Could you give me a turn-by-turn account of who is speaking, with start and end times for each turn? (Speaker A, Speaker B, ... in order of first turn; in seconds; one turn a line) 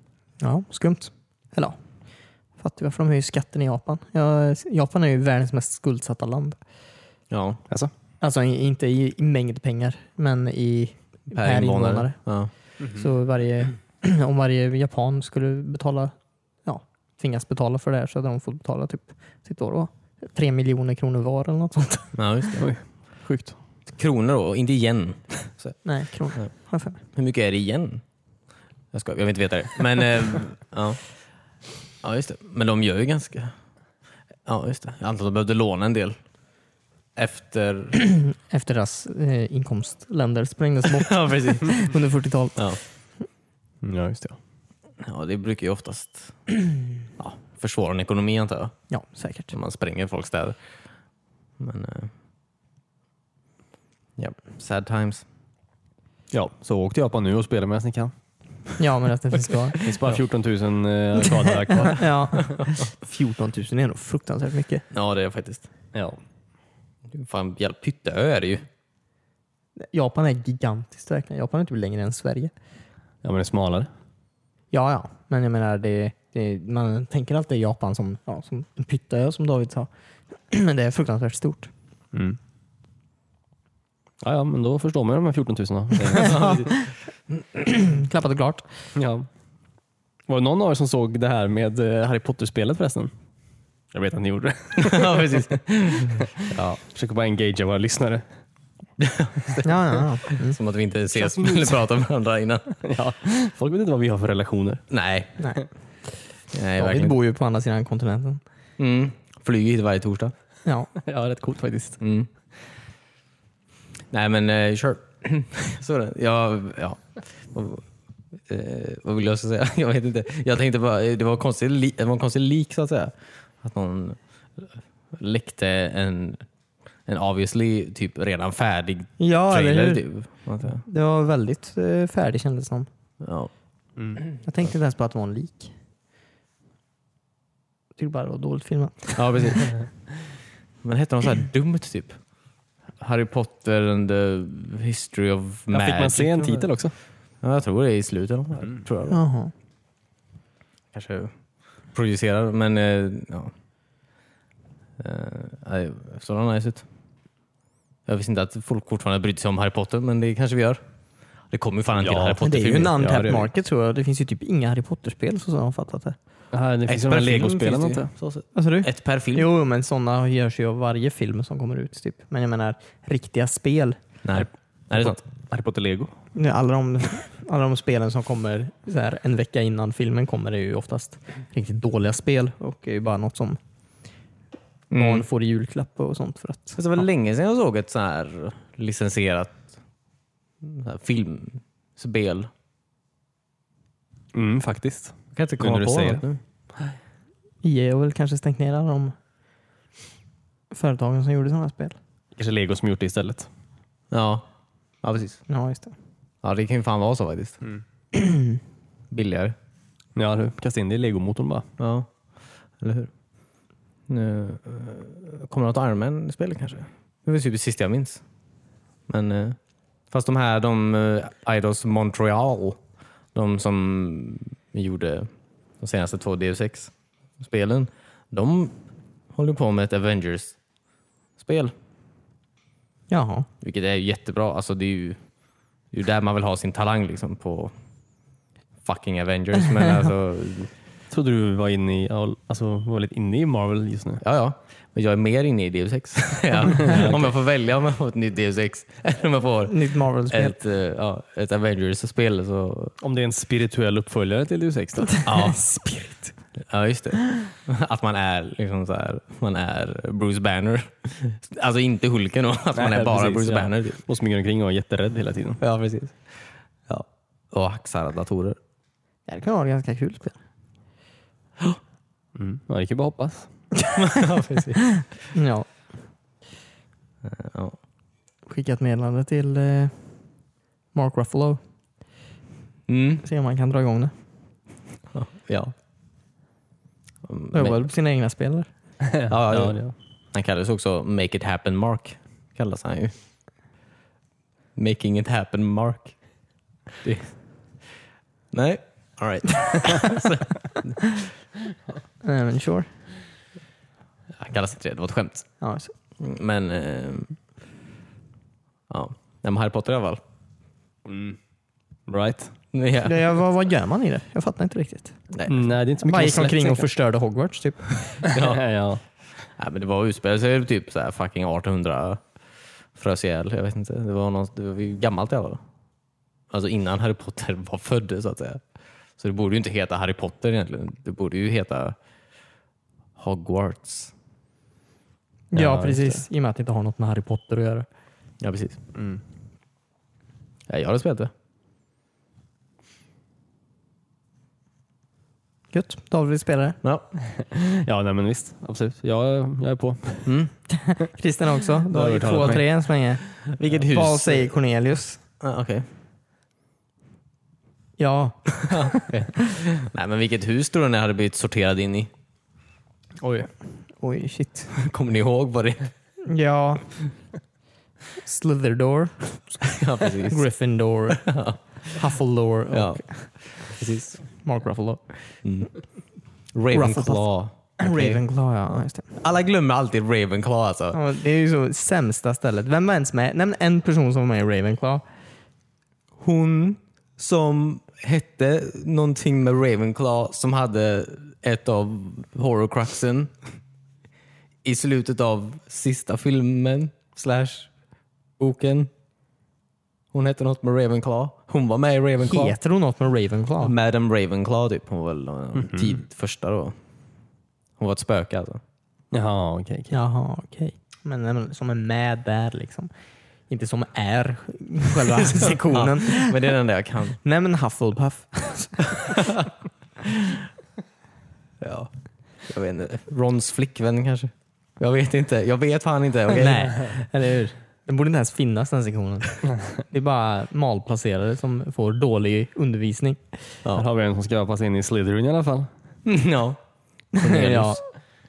Speaker A: 0.4-1.8
Speaker A: 2.6-6.6
Speaker B: 7.3-7.6
Speaker A: 8.2-22.2
Speaker B: 11.3-12.5
Speaker B: 22.1-22.6
Speaker C: 22.6-23.6
Speaker B: 23.9-25.8
Speaker A: 25.8-27.0
Speaker B: 27.1-28.0
Speaker B: 28.9-31.0
Speaker B: 32.0-33.5
Speaker B: 34.5-36.2
Speaker B: 37.1-38.0
Speaker A: 38.0-42.8
Speaker B: 41.0-41.8
Speaker C: 43.8-44.4
Speaker B: 45.0-46.4
Speaker B: 47.2-48.8
Speaker A: 48.9-49.5
Speaker B: 49.5-50.6
Speaker B: 51.6-52.1
Speaker B: 54.2-55.2
Speaker C: 56.3-58.1
Speaker A: 58.8-59.8
Speaker C: 59.8-62.1
Speaker A: 61.3-64.8
Speaker B: 64.9-65.7
Speaker B: 67.1-68.7
Speaker A: 69.9-72.5
Speaker C: 73.2-73.9
Speaker A: 74.7-79.9
Speaker A: 80.5-81.7
Speaker C: 82.1-82.4
Speaker C: 84.2-86.6
Speaker A: 86.2-86.6
Speaker B: 86.2-86.7
Speaker A: 87.6-88.8
Speaker C: 89.0-89.3
Speaker C: 90.3-93.1
Speaker C: 93.9-95.4
Speaker B: 94.8-96.8
Speaker C: 96.8-98.2
Speaker B: 99.0-102.8
Speaker A: 99.6-100.6
Speaker C: 101.2-101.7
Speaker C: 102.8-104.9
Speaker B: 104.9-105.4
Speaker A: 105.4-105.6
Speaker B: 106.5-107.2
Speaker A: 106.8-108.4
Speaker B: 108.8-110.3
Speaker A: 110.7-110.9
Speaker C: 111.0-112.0
Speaker B: 112.0-112.3
Speaker B: 114.1-117.8
Speaker B: 118.5-126.5
Speaker B: 127.1-130.8
Speaker A: 129.2-130.0
Speaker A: 130.8-132.9
Speaker B: 133.2-133.5
Speaker A: 134.4-135.7
Speaker A: 138.0-139.6
Speaker B: 139.2-139.8
Speaker B: 140.8-142.2
Speaker B: 143.0-146.7
Speaker C: 145.7-146.9
Speaker B: 147.4-149.2
Speaker A: 149.1-149.5
Speaker B: 150.9-151.3
Speaker B: 151.9-153.5
Speaker B: 155.0-156.8
Speaker B: 158.1-160.8
Speaker B: 161.5-162.9
Speaker C: 162.0-163.5
Speaker A: 162.4-166.2
Speaker C: 166.5-168.1
Speaker B: 166.9-169.5
Speaker A: 168.6-174.0
Speaker B: 174.2-175.2
Speaker C: 175.0-176.1
Speaker A: 176.3-183.6
Speaker B: 184.9-185.2
Speaker A: 184.9-186.8
Speaker B: 186.8-189.7
Speaker B: 190.6-192.5
Speaker C: 194.3-196.2
Speaker B: 195.3-196.4
Speaker A: 197.6-199.2
Speaker A: 200.7-202.0
Speaker C: 202.3-203.5
Speaker B: 204.1-204.4
Speaker B: 205.0-205.4
Speaker A: 205.5-205.9
Speaker B: 206.4-207.6
Speaker B: 209.1-209.6
Speaker C: 210.2-211.7
Speaker B: 211.8-212.1
Speaker B: 212.8-213.1
Speaker B: 214.1-218.2
Speaker B: 219.1-219.6
Speaker B: 220.1-222.8
Speaker B: 223.3-228.8
Speaker B: 229.3-230.6
Speaker B: 231.4-231.7
Speaker A: 233.1-233.5
Speaker B: 233.6-235.2
Speaker B: 235.9-237.7
Speaker B: 238.8-240.7
Speaker C: 241.1-244.2
Speaker B: 244.2-252.9
Speaker C: 246.7-247.3
Speaker A: 249.7-250.6
Speaker C: 253.0-255.2
Speaker A: 255.1-256.3
Speaker B: 255.2-255.6
Speaker B: 256.6-264.0
Speaker C: 262.7-265.6
Speaker B: 265.6-266.2
Speaker B: 266.9-268.6
Speaker A: 269.3-270.4
Speaker C: 272.4-273.5
Speaker B: 274.0-274.9
Speaker A: 275.3-275.9
Speaker B: 277.2-277.8
Speaker A: 278.5-280.2
Speaker A: 280.9-281.6
Speaker B: 282.9-283.2
Speaker A: 283.2-284.1
Speaker B: 285.1-285.7
Speaker B: 287.2-287.8
Speaker A: 287.5-288.7
Speaker C: 289.1-289.9
Speaker B: 289.3-293.1
Speaker B: 294.8-296.2
Speaker B: 298.5-301.0
Speaker A: 302.2-302.9
Speaker B: 304.4-305.5
Speaker A: 305.6-305.9
Speaker B: 306.2-307.4
Speaker B: 308.9-310.2
Speaker C: 311.1-311.4
Speaker C: 312.1-312.5
Speaker B: 312.7-313.2
Speaker A: 313.1-315.3
Speaker C: 315.5-316.9
Speaker A: 316.0-318.1
Speaker B: 318.1-318.6
Speaker C: 318.2-319.0
Speaker B: 319.6-322.2
Speaker B: 322.9-325.6
Speaker B: 326.5-328.6
Speaker B: 329.2-332.0
Speaker B: 333.2-334.1
Speaker A: 335.5-337.9
Speaker C: 335.5-336.2
Speaker B: 338.4-338.8
Speaker C: 338.9-339.2
Speaker B: 340.7-341.3
Speaker A: 345.7-346.8
Speaker C: 347.3-350.3
Speaker B: 350.2-350.5
Speaker A: 350.8-355.2
Speaker C: 351.9-352.6
Speaker B: 353.4-354.6
Speaker B: 355.4-355.9
Speaker A: 358.0-359.1
Speaker B: 358.7-362.1
Speaker C: 363.2-363.5
Speaker A: 364.0-364.7
Speaker B: 364.7-365.9
Speaker A: 366.2-367.0
Speaker A: 368.2-373.6
Speaker B: 369.7-370.4
Speaker B: 371.2-371.6
Speaker B: 372.7-373.7
Speaker C: 373.8-374.1
Speaker A: 374.4-375.4
Speaker B: 375.4-375.7
Speaker B: 376.5-378.2
Speaker A: 376.7-379.1
Speaker B: 379.1-381.0
Speaker A: 380.9-385.0
Speaker B: 386.2-393.3
Speaker B: 394.6-397.7
Speaker B: 398.4-398.9
Speaker B: 400.1-402.6
Speaker A: 402.2-403.7
Speaker B: 403.6-406.8
Speaker C: 405.6-406.0
Speaker B: 407.8-408.6
Speaker C: 409.1-410.0
Speaker A: 409.9-412.9
Speaker A: 413.5-416.5
Speaker B: 415.4-417.2
Speaker A: 417.2-419.2
Speaker B: 419.1-419.5
Speaker B: 421.6-421.9
Speaker B: 422.4-427.1
Speaker A: 426.3-433.5
Speaker C: 433.7-435.7
Speaker B: 436.1-436.6
Speaker B: 437.2-437.8
Speaker A: 437.2-437.8